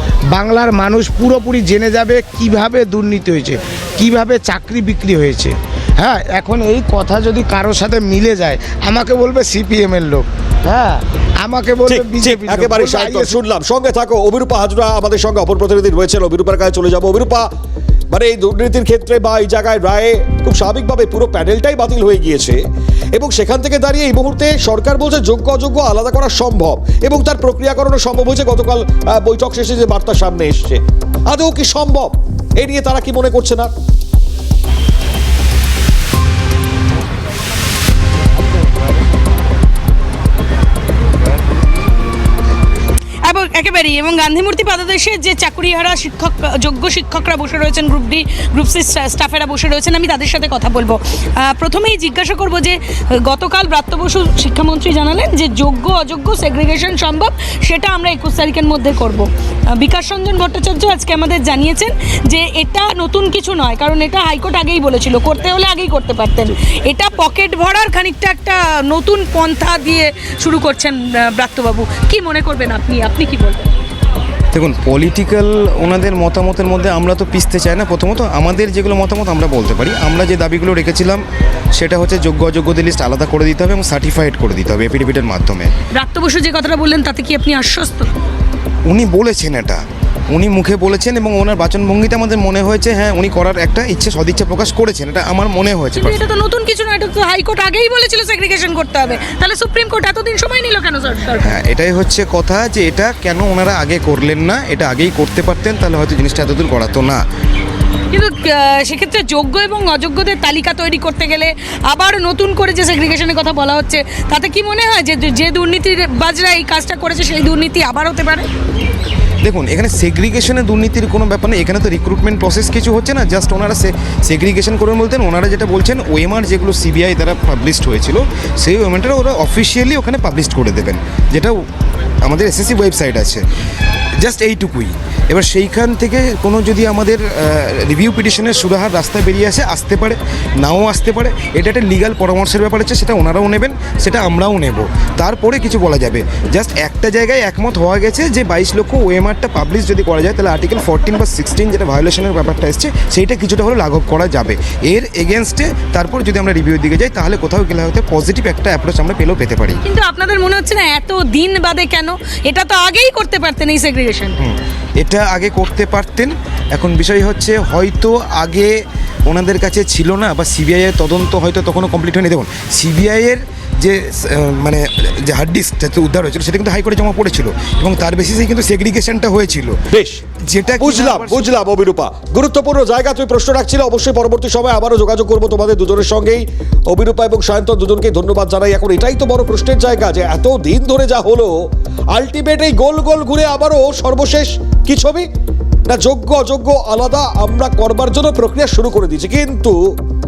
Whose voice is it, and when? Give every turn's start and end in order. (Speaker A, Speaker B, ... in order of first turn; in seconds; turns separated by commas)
Speaker A: 0.3-13.4, Speaker B: 11.9-17.5, Speaker B: 18.1-22.6, Speaker B: 23.1-33.7, Speaker C: 43.3-52.8, Speaker C: 53.3-73.6, Speaker D: 74.5-81.2, Speaker D: 81.7-85.7, Speaker C: 86.0-88.1, Speaker D: 88.8-96.2, Speaker C: 96.0-101.5, Speaker D: 101.4-107.2, Speaker C: 108.1-118.5, Speaker D: 119.4-131.5, Speaker D: 132.2-133.4, Speaker D: 134.2-159.8, Speaker C: 159.8-164.3, Speaker D: 164.4-168.7, Speaker D: 169.3-179.8, Speaker B: 179.9-180.2, Speaker D: 180.5-181.5, Speaker B: 180.8-191.5, Speaker B: 192.1-195.2, Speaker B: 195.9-199.8